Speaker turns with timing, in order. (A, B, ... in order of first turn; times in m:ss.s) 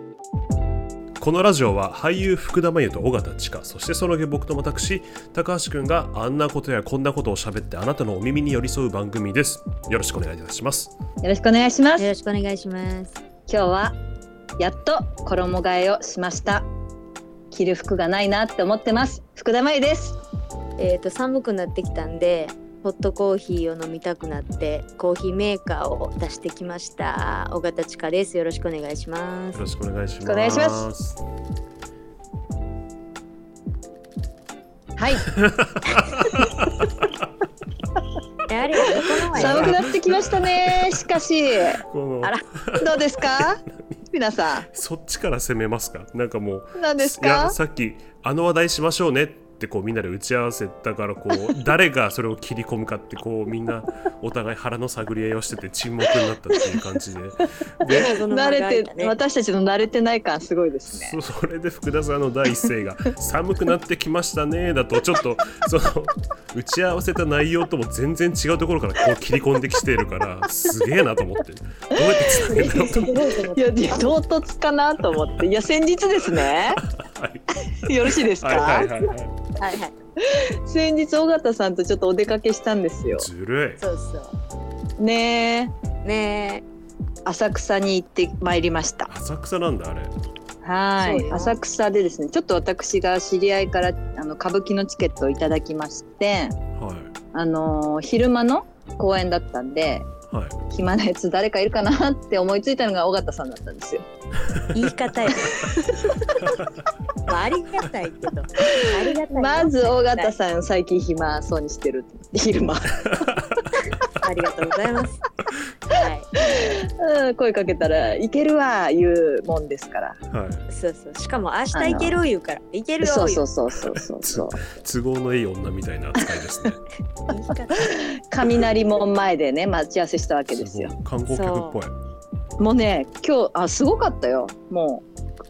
0:01.2-0:10.9 A
0:11.2-0:12.1 B
0:12.0-0:13.2 C
0:13.5-0:14.0 B
0:14.6-0:16.6 B
0:17.5-0:20.2 B
0:20.8-0:29.6 C
0:29.5-0:31.2 A
0:30.2-0:30.9 B
0:35.0-0:35.2 B
0:35.3-0:37.2 A
0:38.5-0:39.8 C
0:38.8-0:44.7 B
0:39.3-0:41.1 A
0:41.8-0:44.0 A
0:44.7-0:58.2 A
0:46.8-0:47.6 B
0:51.3-0:51.6 B
0:56.1-0:57.0 B
0:57.9-1:01.2 B
0:57.9-0:59.2 C
1:00.9-1:13.5 A
1:11.9-1:16.8 B
1:12.5-1:14.1 C
1:16.4-1:19.3 A
1:17.9-1:19.1 B
1:19.6-1:19.9 C
1:20.2-1:23.3 B
1:23.1-1:23.8 A
1:23.8-1:24.4 C
1:25.0-1:25.7 B
1:26.0-1:26.6 C
1:27.2-1:29.1 B
1:29.1-1:30.1 A
1:30.6-1:36.6 B
1:31.0-1:31.6 C
1:36.8-1:37.1 A
1:37.3-1:40.1 B
1:40.3-1:40.6 A
1:40.7-1:44.0 B
1:44.7-1:45.7 C
1:45.4-1:46.3 B
1:47.3-1:50.3 C
1:48.6-1:53.3 B
1:53.8-1:55.2 C
1:55.9-1:56.5 C
1:56.4-2:00.2 B
2:00.3-2:00.6 A
2:00.7-2:03.4 C
2:01.7-2:02.2 B
2:03.0-2:04.6 B
2:03.9-2:06.8 A
2:07.3-2:08.0 C
2:07.8-2:11.0 B
2:10.5-2:11.9 A
2:11.3-2:11.8 C
2:12.6-2:15.0 B